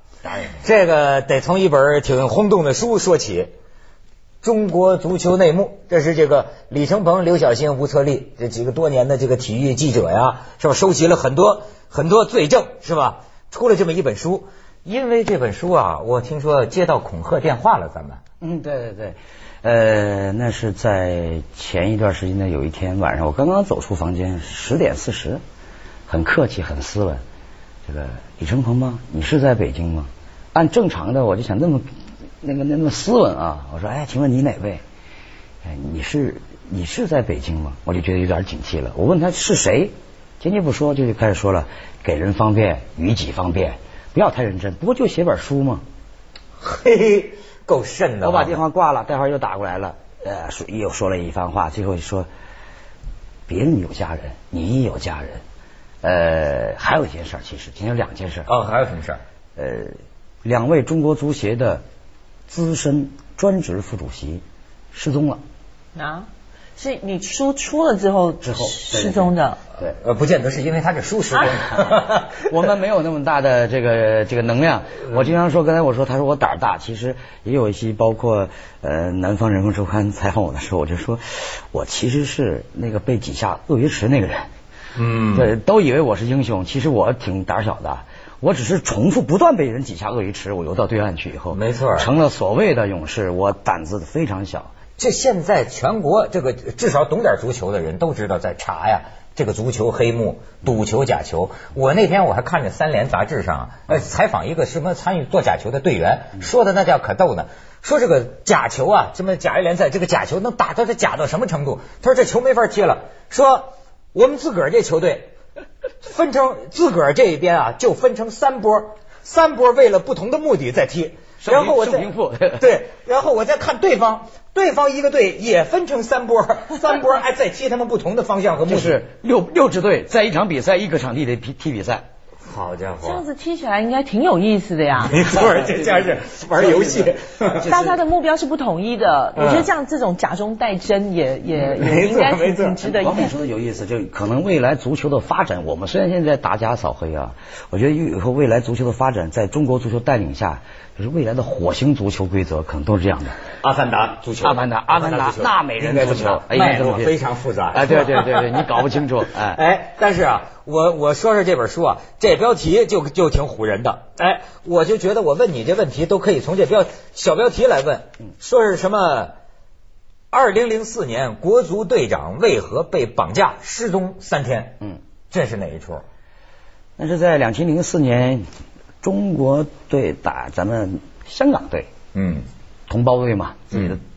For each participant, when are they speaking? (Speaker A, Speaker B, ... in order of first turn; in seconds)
Speaker A: 0.4-3.5, 4.4-18.2, 46.6-48.6, 58.5-59.2, 69.9-72.5, 85.0-85.5, 91.5-92.1, 95.0-115.3, 116.0-129.0, 132.4-133.2, 135.0-137.8, 139.3-139.7, 141.6-142.8, 153.6-169.3, 170.3-176.0, 182.1-182.5
Speaker B: 18.4-25.4, 26.1-27.2, 27.9-31.9, 32.4-34.8, 35.6-45.8, 48.2-52.3, 53.5-55.4, 56.0-58.5, 59.5-61.8, 62.5-65.4, 68.4-70.0, 72.3-84.5, 85.3-94.7, 121.4-122.8, 128.6-132.1, 136.8-137.1, 137.6-137.9, 142.8-153.4, 154.4-157.1, 157.7-159.6, 177.0-178.4, 179.0-181.9, 182.9-184.0
Speaker C: 65.9-69.6, 133.0-135.3, 137.6-143.3